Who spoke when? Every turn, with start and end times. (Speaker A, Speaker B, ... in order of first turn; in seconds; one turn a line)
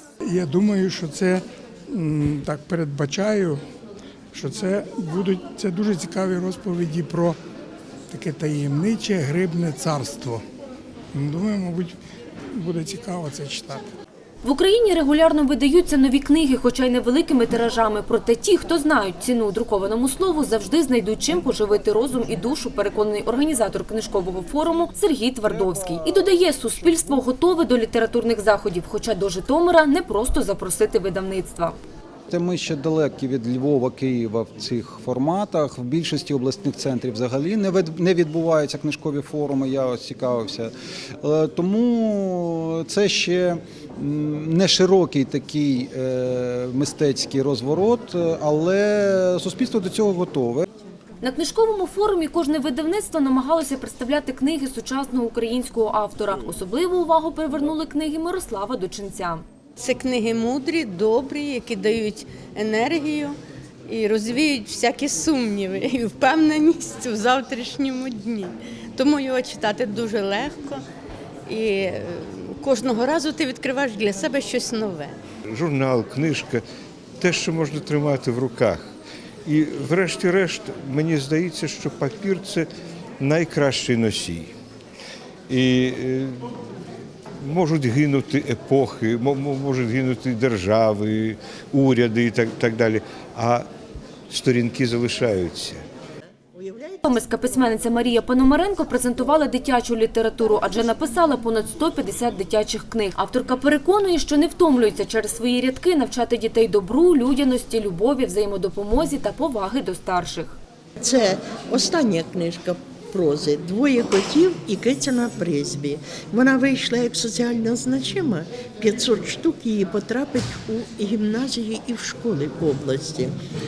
Speaker A: 0.3-3.6
Speaker A: 4.3-7.4
Speaker A: 8.1-10.4
Speaker A: 11.1-11.9
Speaker A: 12.5-13.8
Speaker B: 14.4-31.8
Speaker C: 25.4-26.3
Speaker C: 32.3-50.6
Speaker B: 51.2-59.4
Speaker D: 59.8-70.8
Speaker D: 71.5-75.2
Speaker E: 75.5-76.6
Speaker E: 77.2-78.8
Speaker E: 79.5-82.7
Speaker E: 83.2-84.5
Speaker E: 85.5-86.4
Speaker E: 87.4-93.7
Speaker E: 94.3-95.8
Speaker F: 96.5-97.0
Speaker B: 97.0-110.6
Speaker F: 111.0-123.3